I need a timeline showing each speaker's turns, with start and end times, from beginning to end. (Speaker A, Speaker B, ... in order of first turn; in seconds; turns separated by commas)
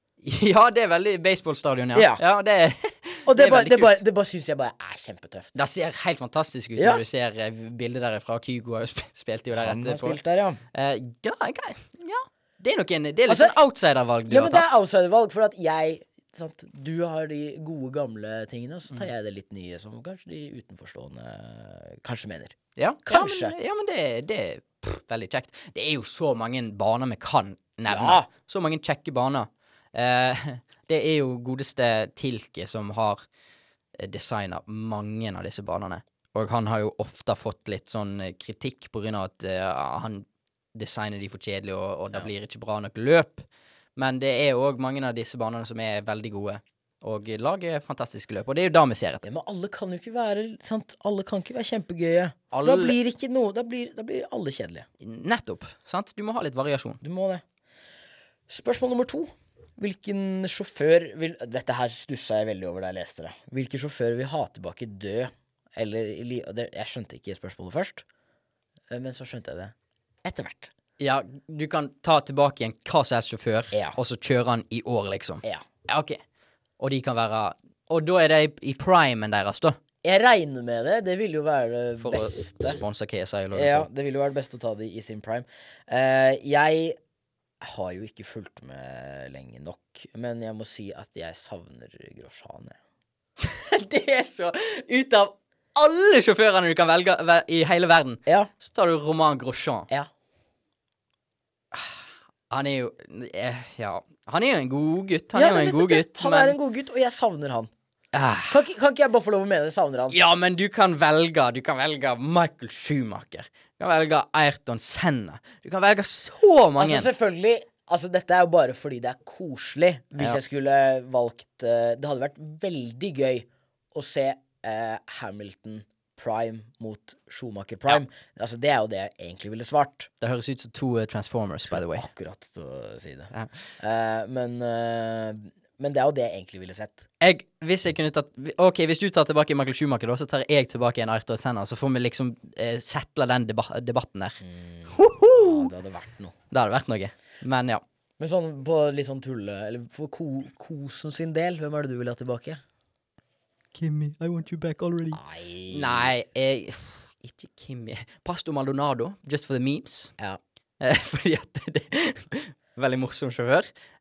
Speaker A: 0.2-4.0, Speaker B: 1.9-2.2, Speaker B: 3.3-5.6, Speaker A: 5.5-10.2, Speaker B: 6.8-7.0, Speaker B: 9.6-10.6, Speaker A: 10.7-14.7, Speaker B: 13.3-13.6, Speaker B: 14.3-23.5, Speaker A: 22.8-33.2, Speaker B: 27.9-28.3, Speaker A: 34.0-43.5, Speaker A: 44.0-49.2, Speaker B: 49.2-54.9, Speaker A: 52.5-52.9, Speaker A: 55.0-57.0, Speaker B: 57.0-57.4, Speaker B: 58.5-68.0, Speaker B: 68.9-70.7, Speaker A: 71.0-76.2, Speaker B: 73.7-74.0, Speaker A: 76.8-79.8, Speaker B: 80.0-82.8, Speaker A: 82.0-83.9, Speaker B: 83.5-87.0, Speaker B: 87.6-92.8, Speaker A: 93.4-99.9, Speaker A: 101.7-106.6, Speaker B: 105.3-107.7, Speaker A: 108.1-108.6, Speaker B: 108.5-110.2, Speaker A: 110.1-117.1, Speaker B: 116.8-130.1, Speaker A: 130.2-132.1, Speaker B: 131.7-137.1, Speaker A: 137.2-145.7, Speaker B: 144.4-146.3, Speaker A: 146.5-147.8, Speaker B: 148.2-152.6, Speaker A: 153.8-160.1, Speaker B: 155.1-156.1, Speaker A: 160.8-163.7